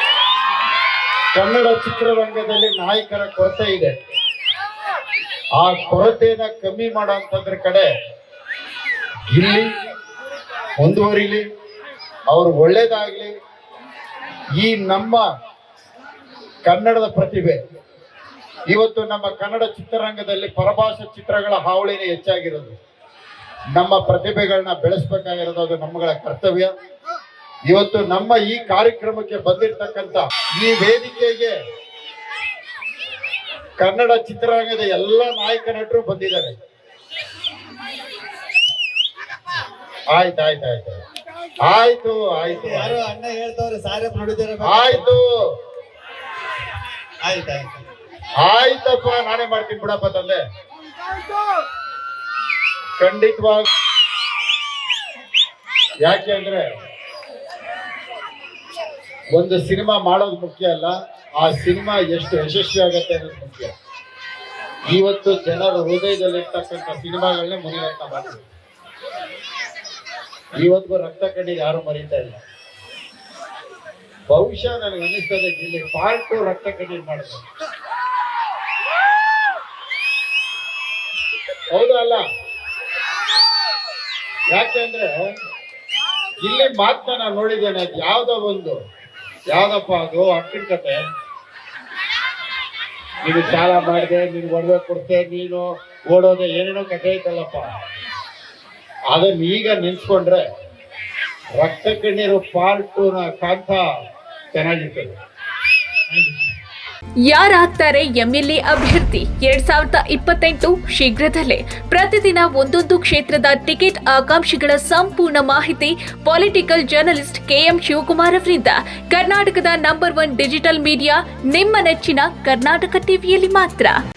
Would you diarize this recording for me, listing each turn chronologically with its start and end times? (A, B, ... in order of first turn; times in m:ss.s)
0:01.3-0:03.9 A
0:05.6-0:07.9 A
0:09.3-0:09.7 A
0:10.8-0:11.4 A
0:12.3-0:13.3 A
0:14.6-0:15.2 A
0:16.6-0:17.6 A
0:18.7-0:22.7 A
0:23.8-0:26.7 A
0:27.7-0:31.5 A
0:33.8-0:36.5 A
0:40.1-0:41.0 A
0:41.6-0:43.0 A
0:42.5-0:45.1 B
0:44.6-0:45.3 A
0:47.2-0:47.8 B
0:48.4-0:50.4 A
0:53.0-0:53.7 A
0:56.0-0:56.6 A
0:59.3-1:03.7 A
1:04.9-1:08.4 A
1:10.6-1:12.4 A
1:14.3-1:17.4 A
1:21.7-1:22.2 A
1:24.5-1:25.1 A
1:26.4-1:28.8 A
1:29.5-1:31.0 A
1:33.2-1:37.7 A
1:39.1-1:40.4 A
1:41.6-1:43.9 A
1:44.5-1:45.1 A
1:46.1-1:46.4 A
1:47.3-2:04.0 C